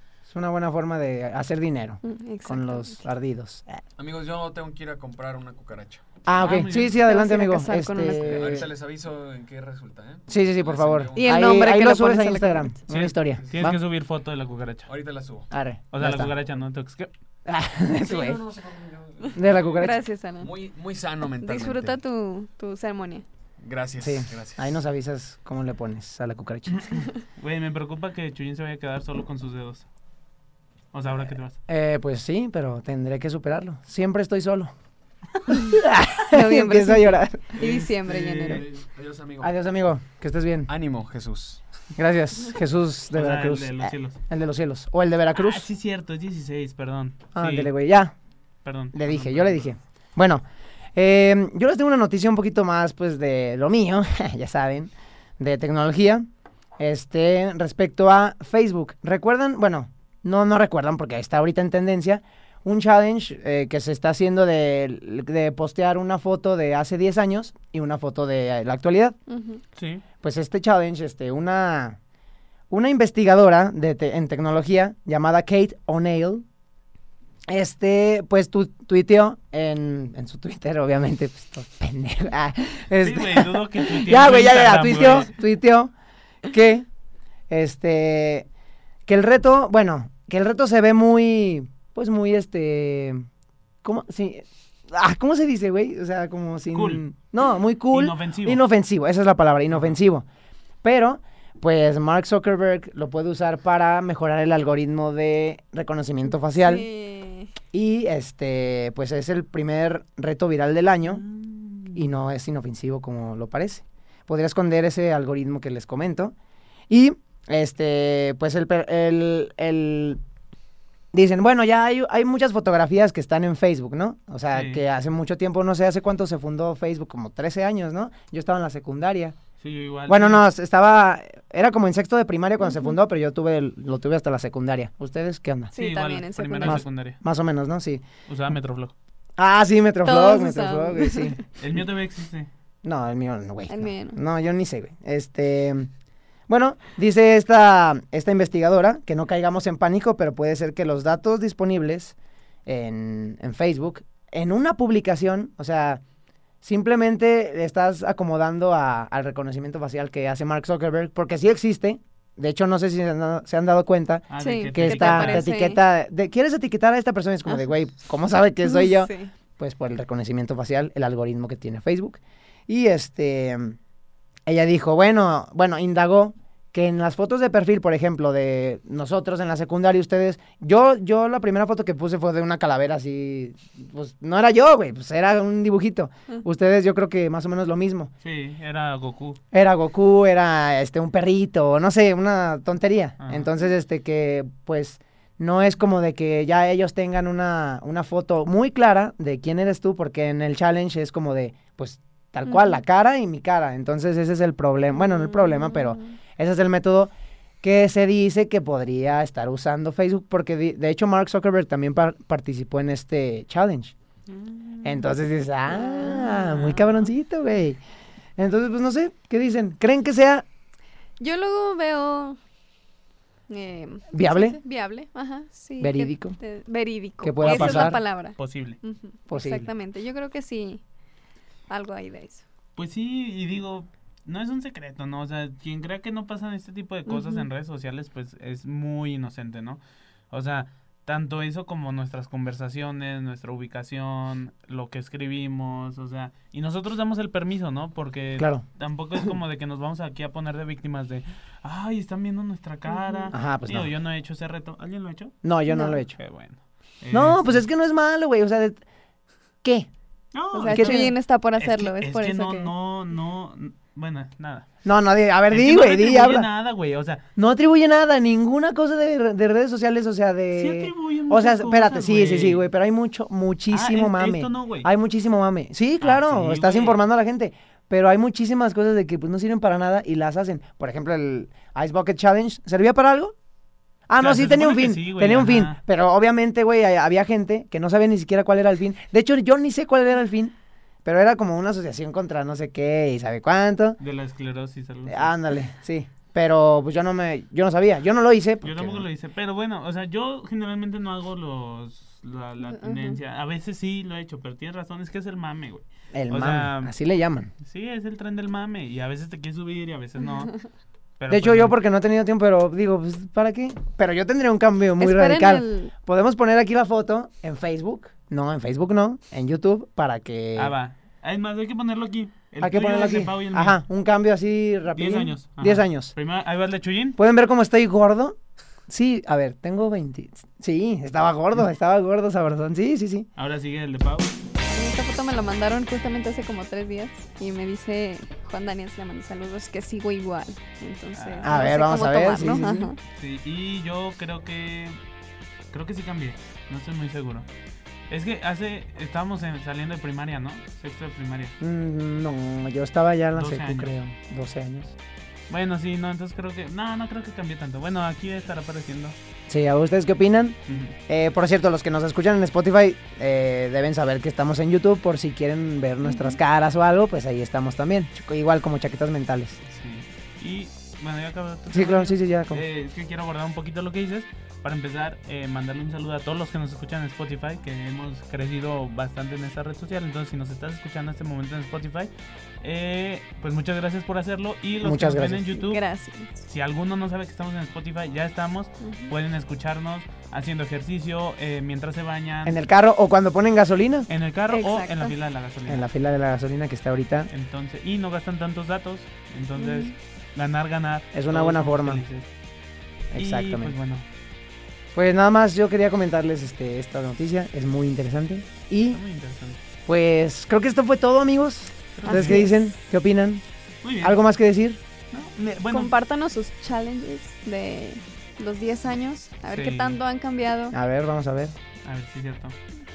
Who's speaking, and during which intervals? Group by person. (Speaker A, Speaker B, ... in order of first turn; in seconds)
Speaker A: 0.3-3.8, 6.2-8.7, 10.3-13.8, 15.5-16.4, 17.4-18.4, 19.3-20.0, 24.0-26.9, 31.7-34.7, 35.6-37.6, 39.4-40.7, 42.0-45.7, 47.3-48.1, 48.9-50.4, 50.9-56.2, 56.8-69.2, 70.2-72.0, 72.7-76.4, 77.5-85.9, 86.5-86.8, 87.5-88.5, 89.1-93.2, 93.8-100.2, 100.8-106.9, 107.7-111.2, 111.9-116.3, 116.9-120.2, 121.1-129.3, 130.1-135.7, 136.6-138.0, 139.4-141.4, 142.8-145.9, 146.5-152.1, 152.7-156.0, 156.6-173.8, 174.4-188.1, 189.5-207.1, 207.6-213.9, 214.8-217.8, 218.4-220.4, 224.1-224.6, 225.8-226.4, 227.2-228.0, 229.3-229.7, 248.4-248.6, 253.3-253.9, 255.4-256.2, 257.1-258.8, 259.6-259.9, 260.7-261.1, 264.8-266.5, 267.4-283.3, 284.1-294.0, 295.1-299.1, 306.1-307.5, 311.3-320.7, 322.6-326.1, 327.2-328.4, 328.9-333.3, 341.4-342.9, 351.6-354.9, 359.5-369.6, 371.7-372.6, 384.8-385.6, 392.4-394.1, 395.7-397.3, 401.1-402.0, 403.1-403.7, 404.9-409.0, 409.9-413.4, 414.0-414.8, 420.7-421.6
Speaker B: 2.0-3.0, 6.7-8.6, 11.1-12.7, 19.8-20.5, 21.4-23.2, 36.3-38.6, 69.3-69.6, 106.5-107.5, 135.7-136.8, 140.0-141.4, 143.7-144.2, 164.4-165.8, 168.6-169.3, 205.2-206.0, 215.7-216.8, 221.2-222.4, 223.5-230.8, 231.7-232.4, 237.1-237.4, 252.9-253.3, 255.7-256.0, 260.5-262.7, 302.7-303.2, 315.0-315.9, 334.6-343.0, 366.0-366.4, 385.6-386.3, 388.8-389.1, 394.5-395.1, 399.6-399.9, 412.0-412.5, 415.7-420.8
Speaker C: 4.0-6.2, 8.2-11.7, 13.4-13.8, 14.9-15.5, 18.0-22.0, 23.6-24.8, 38.4-39.5, 40.7-41.6
Speaker D: 6.4-7.0, 12.9-14.9, 15.9-17.1, 26.8-29.9, 30.9-31.6, 37.5-38.6, 43.1-44.2, 45.3-47.7, 48.6-49.7, 69.7-70.0, 83.0-85.3, 96.7-97.1, 97.9-98.6, 111.0-112.0, 124.5-124.8, 129.6-130.4, 135.7-137.2, 138.3-138.9, 141.6-142.5, 164.3-165.5, 188.2-189.4, 193.2-193.5, 214.4-214.8, 227.4-228.8, 232.8-239.8, 240.3-255.3, 256.2-257.6, 260.3-264.7, 265.5-267.2, 270.5-272.6, 273.7-274.9, 276.0-277.0, 284.2-285.8, 294.0-295.3, 298.6-306.9, 307.6-310.6, 311.2-311.7, 320.6-323.8, 324.9-327.2, 333.4-334.4, 341.1-341.6, 343.1-345.0, 345.7-347.5, 348.1-351.5, 353.3-353.9, 355.5-359.1, 360.7-360.9, 369.7-385.8, 386.4-392.6, 394.1-395.8, 397.3-402.3, 403.1-404.0, 408.9-409.6, 411.9-412.5, 413.8-414.2, 415.1-415.9, 419.5-420.0, 421.8-422.6